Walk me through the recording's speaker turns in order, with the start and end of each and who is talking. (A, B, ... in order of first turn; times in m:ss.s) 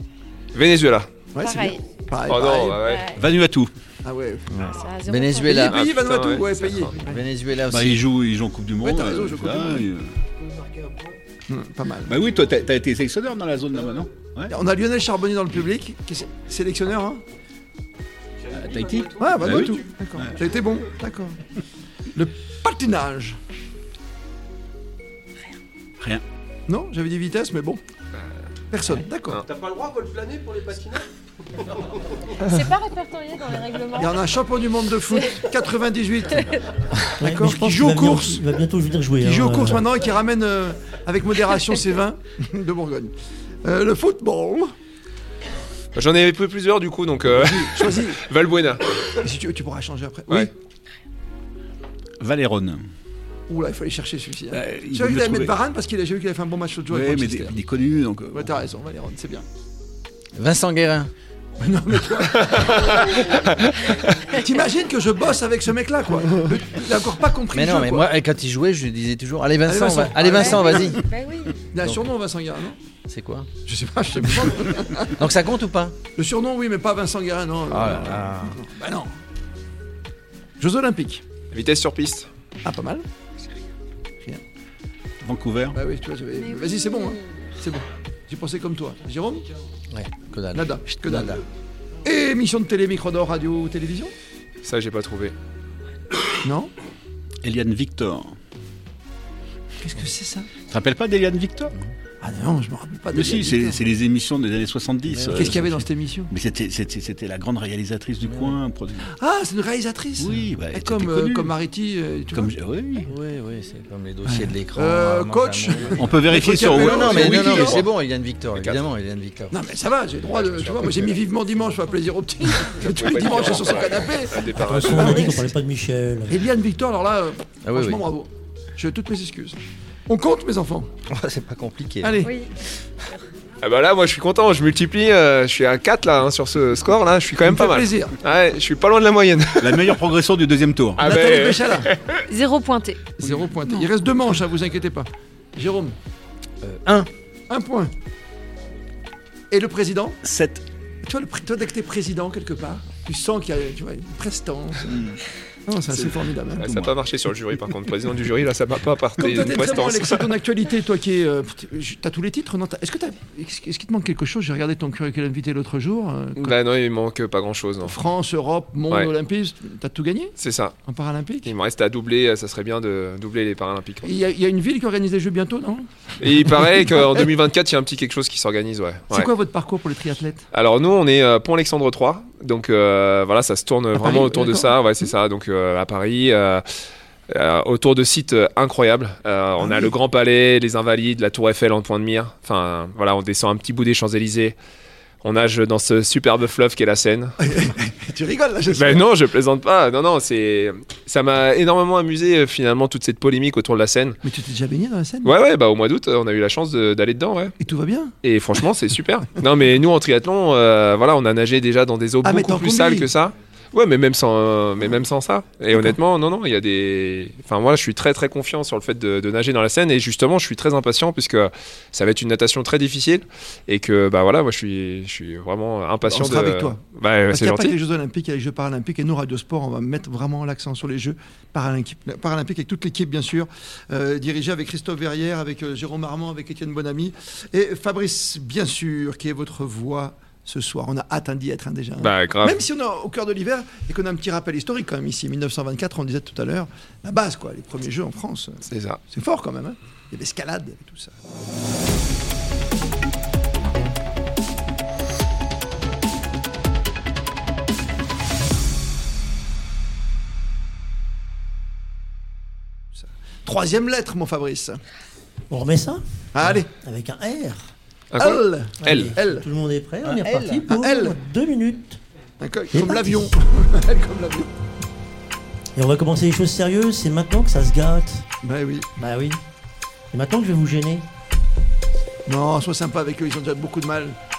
0:00.5-0:01.1 A
0:01.3-0:02.8 B
0:01.4-0:01.8 C
0:02.2-0:03.1 A
0:02.8-0:03.2 C
0:03.1-0:03.7 D
0:04.0-0:04.5 B
0:04.5-0:05.8 E
0:04.6-0:05.8 C
0:05.4-0:07.1 B
0:05.7-0:06.9 A
0:07.0-0:08.0 E
0:07.7-0:10.1 D
0:08.8-0:09.8 B
0:11.5-0:12.2 B
0:12.1-0:14.5 D
0:14.5-0:17.2 B
0:18.5-0:20.4 D
0:19.2-0:21.4 B
0:22.1-0:23.4 B
0:26.7-0:27.8 B
0:28.7-0:29.4 B
0:32.3-0:34.2 C
0:34.0-0:36.5 B
0:37.2-0:38.4 B
0:37.2-0:39.8 F
0:39.2-0:43.1 B
0:43.6-0:44.7 B
0:45.9-0:48.8 A
0:47.3-0:48.2 B
0:49.2-0:50.5 B
0:52.2-0:52.9 D
0:53.5-0:57.6 B
0:54.5-0:55.6 D
0:56.9-0:58.5 D
0:58.3-0:59.4 B
1:00.4-1:01.1 E
1:01.6-1:03.4 B
1:02.5-1:04.2 A
1:04.3-1:08.1 B
1:07.5-1:11.0 E
1:09.6-1:11.0 B
1:10.2-1:11.7 C
1:11.7-1:12.8 B
1:11.8-1:12.1 E
1:13.1-1:13.5 E
1:13.6-1:15.3 B
1:15.1-1:16.0 E
1:16.1-1:19.2 B
1:17.7-1:18.6 E
1:20.6-1:21.2 B
1:21.5-1:22.3 A
1:22.6-1:23.0 B
1:25.2-1:25.8 D
1:25.7-1:29.5 B
1:26.4-1:27.5 C
1:29.9-1:31.4 E
1:30.5-1:31.4 B
1:32.0-1:34.1 B
1:34.6-1:35.3 A
1:36.4-1:36.7 B
1:37.4-1:38.4 D
1:39.8-1:40.5 B
1:40.7-1:41.7 D
1:42.2-1:43.8 B
1:43.1-1:49.1 D
1:45.1-1:45.6 E
1:45.3-1:46.3 B
1:49.1-1:52.5 B
1:50.2-1:51.5 D
1:52.3-1:53.1 D
1:53.1-1:59.5 E
1:54.7-1:57.9 B
1:56.0-1:57.8 D
1:58.6-1:58.8 A
1:59.5-2:05.5 B
2:00.4-2:01.1 A
2:02.6-2:05.4 A
2:04.5-2:06.4 F
2:06.3-2:10.9 B
2:07.6-2:08.0 E
2:11.1-2:12.2 E
2:12.0-2:12.4 B
2:12.2-2:12.5 C
2:13.6-2:20.0 A
2:17.4-2:18.1 B
2:19.6-2:21.0 D
2:21.0-2:22.2 A
2:21.0-2:21.9 B
2:22.3-2:23.0 C
2:23.2-2:26.0 B
2:23.2-2:23.7 D
2:26.6-2:27.1 E
2:27.5-2:27.9 B
2:29.5-2:30.2 B
2:30.2-2:30.6 D
2:31.0-2:36.9 B
2:35.9-2:40.3 A
2:39.2-2:46.5 B
2:46.4-2:48.0 A
2:47.8-2:50.3 B
2:50.4-2:50.8 A
2:50.9-2:51.5 B
2:51.4-2:54.1 A
2:54.0-2:57.1 B
2:56.2-2:59.3 A
2:59.1-3:00.4 B
3:00.5-3:06.8 A
3:04.0-3:04.7 B
3:07.3-3:14.6 A
3:09.6-3:09.9 B
3:15.2-3:17.4 A
3:17.4-3:19.0 B
3:18.7-3:24.2 A
3:24.2-3:25.3 B
3:25.2-3:27.5 A
3:27.6-3:28.1 B
3:28.2-3:47.8 A
3:32.2-3:33.1 B
3:46.1-3:46.8 B
3:47.3-4:11.1 B
4:02.0-4:02.6 A
4:08.7-4:09.0 A
4:23.0-4:24.8 B
4:25.5-4:27.7 F
4:26.3-4:26.7 B
4:28.1-4:29.1 A
4:28.2-4:29.5 B
4:28.8-4:32.0 F
4:30.0-4:30.6 E
4:30.7-4:31.2 B
4:32.4-4:34.5 B
4:32.7-4:33.3 F
4:35.7-4:38.2 F
4:38.4-4:39.0 B
4:39.0-4:39.4 F
4:40.1-4:41.0 F
4:42.3-4:44.2 B